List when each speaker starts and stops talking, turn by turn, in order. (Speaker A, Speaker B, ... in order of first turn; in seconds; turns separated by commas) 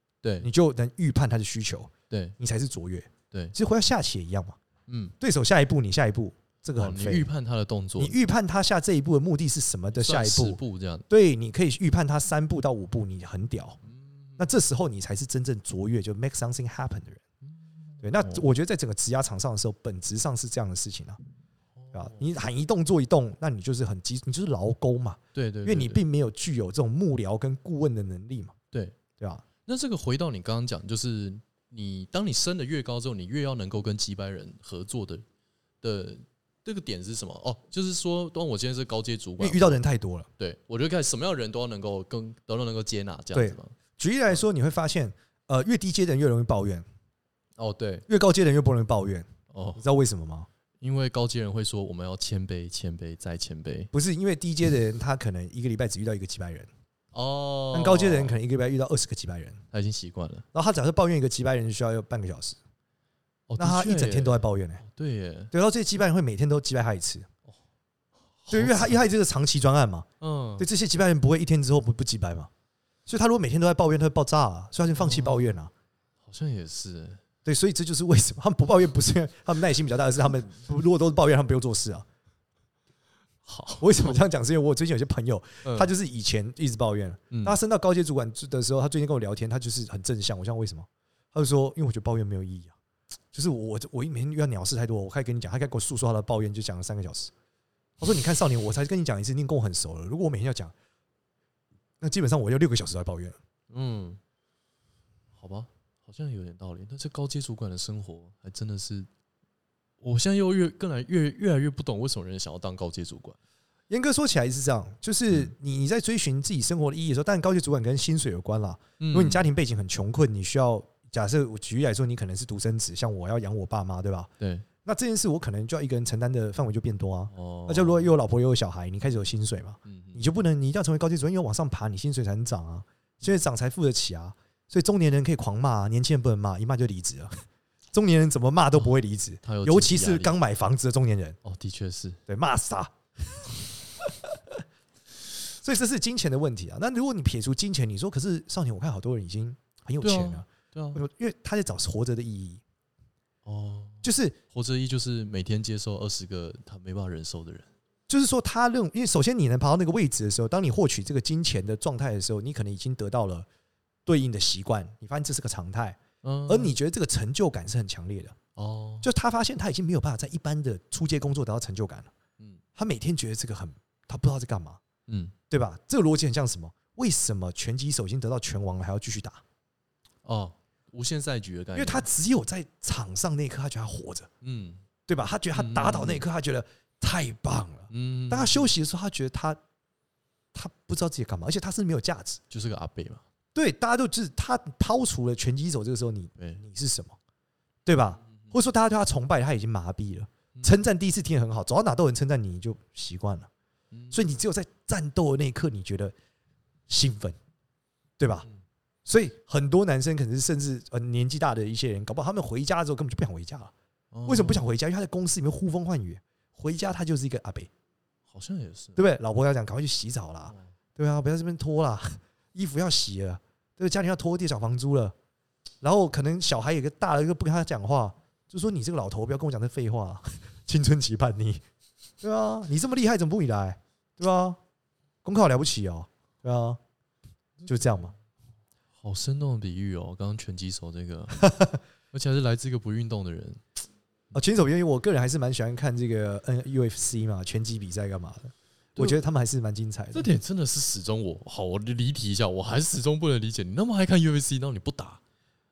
Speaker A: 0.2-0.5, Speaker B: 0.4-4.6, Speaker A: 2.1-2.4, Speaker A: 4.9-5.1, Speaker B: 5.2-7.3, Speaker A: 6.8-8.1, Speaker B: 8.0-13.8, Speaker A: 9.9-11.1, Speaker A: 13.9-14.4, Speaker B: 14.4-17.2, Speaker A: 18.0-18.4, Speaker B: 18.0-21.2, Speaker A: 21.8-22.2, Speaker B: 21.9-28.5, Speaker A: 25.3-26.0, Speaker A: 28.7-29.0, Speaker B: 29.2-29.4, Speaker A: 29.6-35.2, Speaker A: 35.8-39.8, Speaker B: 39.4-40.3, Speaker A: 40.4-43.7, Speaker B: 43.3-46.9, Speaker A: 47.6-48.0, Speaker B: 48.1-50.5, Speaker A: 49.5-49.8, Speaker A: 50.8-53.9, Speaker B: 53.9-56.7, Speaker A: 57.1-58.4, Speaker B: 57.7-59.6, Speaker A: 59.7-60.5, Speaker B: 60.5-62.6, Speaker A: 63.5-65.5, Speaker B: 63.6-64.8, Speaker B: 65.5-67.3, Speaker A: 68.4-69.0, Speaker B: 68.5-70.1, Speaker A: 70.2-70.7, Speaker B: 70.6-72.5, Speaker B: 73.1-75.7, Speaker A: 74.9-75.5, Speaker A: 76.2-77.2, Speaker B: 77.4-82.0, Speaker A: 83.4-84.2, Speaker B: 83.8-92.8, Speaker A: 85.6-85.9, Speaker A: 87.3-87.5, Speaker B: 93.3-97.3, Speaker B: 98.0-100.7, Speaker B: 102.0-103.3, Speaker A: 103.7-104.2, Speaker A: 105.3-109.1, Speaker A: 110.0-113.4, Speaker B: 113.9-124.3, Speaker A: 119.0-119.4, Speaker A: 124.4-124.7, Speaker B: 124.8-137.3, Speaker A: 127.3-128.1, Speaker A: 129.8-130.2, Speaker B: 137.9-141.4, Speaker A: 139.4-140.4, Speaker A: 141.4-142.2, Speaker B: 142.3-143.5, Speaker B: 145.6-152.6, Speaker A: 150.0-151.0, Speaker A: 153.4-157.7, Speaker B: 154.0-154.4, Speaker B: 158.1-163.5, Speaker B: 164.1-168.4, Speaker A: 166.2-166.8, Speaker A: 168.6-169.1, Speaker B: 169.0-172.1, Speaker B: 172.8-174.8, Speaker A: 175.1-175.3, Speaker B: 175.5-179.4, Speaker A: 180.2-182.1, Speaker B: 181.7-184.3, Speaker A: 184.4-184.8, Speaker B: 185.1-189.6, Speaker A: 185.5-186.2, Speaker A: 187.9-188.7, Speaker B: 190.5-192.4, Speaker A: 192.5-193.2, Speaker B: 193.5-197.2, Speaker B: 197.8-203.5, Speaker A: 203.9-204.2, Speaker B: 204.1-206.1, Speaker B: 206.9-207.3, Speaker B: 208.2-208.5, Speaker B: 209.1-213.7, Speaker A: 214.1-214.6, Speaker B: 214.2-217.7, Speaker A: 218.3-219.0, Speaker B: 218.9-225.1, Speaker B: 225.8-231.6, Speaker B: 232.2-234.6, Speaker B: 235.2-236.8, Speaker A: 237.6-238.0, Speaker B: 237.7-238.1, Speaker A: 239.0-241.4, Speaker B: 241.4-241.8, Speaker A: 242.1-243.6, Speaker B: 244.3-250.3, Speaker A: 250.1-255.2